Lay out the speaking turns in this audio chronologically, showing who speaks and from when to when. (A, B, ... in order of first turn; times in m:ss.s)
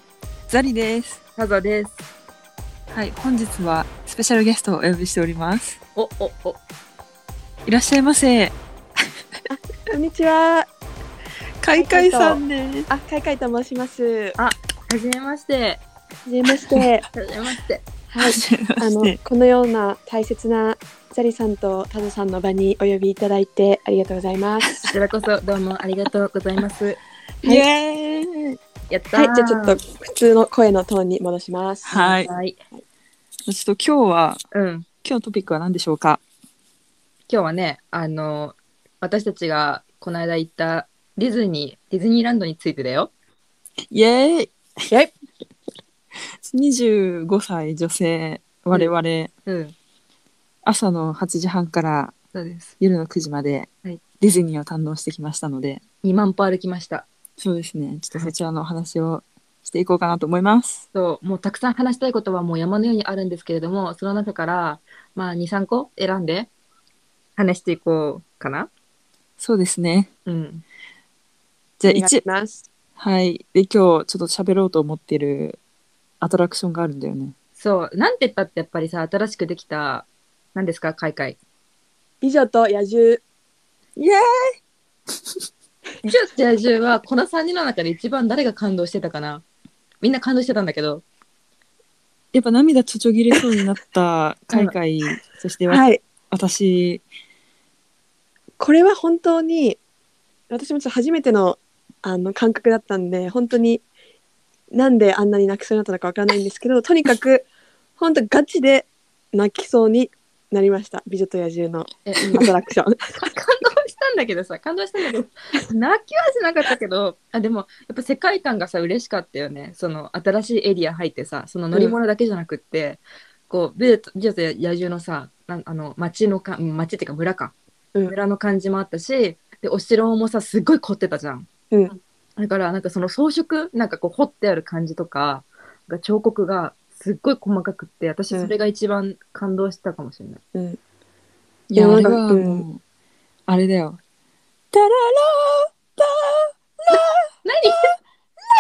0:00.5-0:01.2 A
0:01.4-0:02.0 B
0:02.9-0:05.8 A
0:06.0-0:06.6 B
0:07.7-0:08.6 A
0:09.5-0:10.7 C
0:11.6-0:12.9 A
0:11.8-0:12.4 C
0:12.9-0:14.4 C
0:14.4-0:15.8 B
0:16.3-0:17.0 C
0:17.1-0:17.8 B
0:18.1-0:24.6 C
0:18.2-0:19.2 A
0:24.6-0:24.9 A
0:24.9-0:27.0 B
0:27.4-0:28.6 A
0:28.9-0:29.8 B
0:29.2-0:32.2 C
0:31.8-0:32.3 A
0:32.2-0:32.6 B
0:33.5-0:34.4 A
0:34.5-0:34.9 B
0:35.0-0:36.2 A
0:37.3-0:43.1 B
0:43.9-0:44.6 A
0:46.4-0:49.3 A
0:49.5-0:49.8 B
0:50.6-0:52.2 A
0:52.3-0:52.7 B
0:52.8-0:55.8 A
0:56.0-0:57.1 B
0:57.4-1:00.8 A
1:00.9-1:06.5 B
1:07.4-1:08.7 B
1:09.4-1:10.1 A
1:10.3-1:10.6 B
1:11.8-1:12.2 A
1:11.9-1:12.6 C
1:13.0-1:15.6 A
1:16.2-1:17.3 A
1:17.6-1:21.4 B
1:22.2-1:23.2 C
1:24.0-1:24.5 A
1:26.0-1:29.4 B
1:30.0-1:31.0 B
1:32.3-1:37.0 A
1:38.6-1:39.8 C
1:40.5-1:43.8 C
1:44.7-1:47.4 C
1:48.0-1:51.9 C
1:52.1-1:52.5 B
1:52.5-1:53.2 C
1:53.2-2:07.6 B
2:08.1-2:11.5 B
2:12.4-2:20.4 B
2:21.7-2:22.8 A
2:21.8-2:22.6 C
2:23.5-2:24.0 A
2:24.7-2:27.2 A
2:26.9-2:28.0 B